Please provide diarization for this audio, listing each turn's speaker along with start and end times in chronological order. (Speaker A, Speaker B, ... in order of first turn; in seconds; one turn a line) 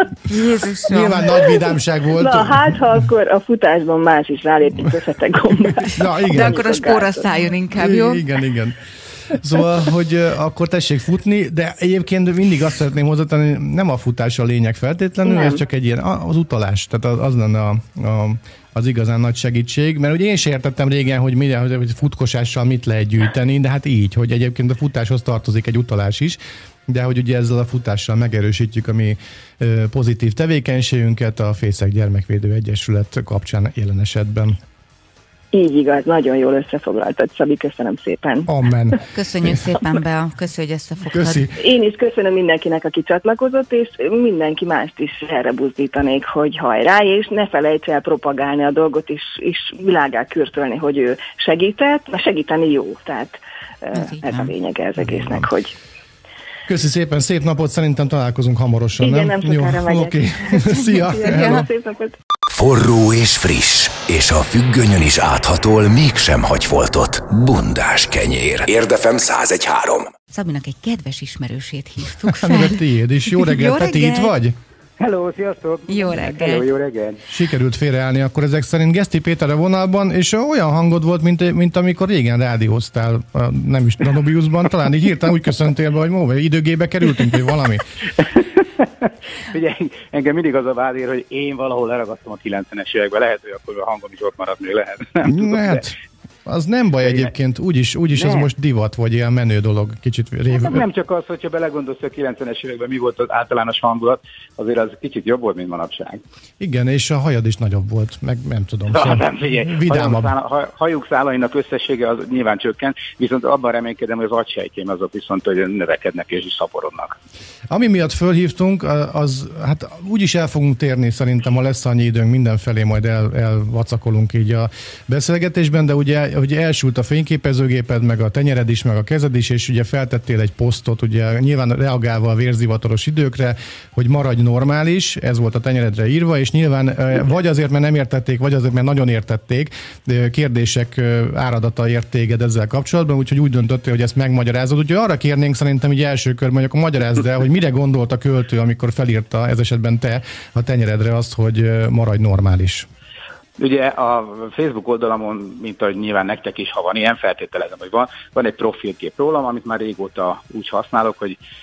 Speaker A: 0.3-1.3
Speaker B: 0.8-2.9
Speaker C: 2.1-7.5
Speaker B: 5.8-6.6
Speaker A: 6.3-8.2
Speaker B: 7.7-34.6
Speaker C: 15.2-15.6
Speaker C: 35.5-38.5
Speaker B: 38.5-39.6
Speaker A: 39.1-41.5
Speaker B: 41.1-41.5
Speaker C: 41.5-55.8
Speaker A: 53.9-54.5
Speaker B: 55.0-55.5
Speaker B: 56.7-61.7
Speaker C: 59.0-62.2
Speaker D: 62.5-70.1
Speaker A: 70.3-74.3
Speaker B: 72.2-74.6
Speaker E: 75.0-77.2
Speaker A: 75.9-76.7
Speaker B: 77.3-87.9
Speaker E: 88.2-95.8
Speaker B: 95.2-100.8
Speaker E: 97.0-97.3
Speaker E: 98.1-98.5
Speaker E: 100.5-106.2
Speaker B: 106.6-110.3
Speaker E: 108.9-117.1
Speaker B: 117.7-152.9
Speaker E: 153.6-161.4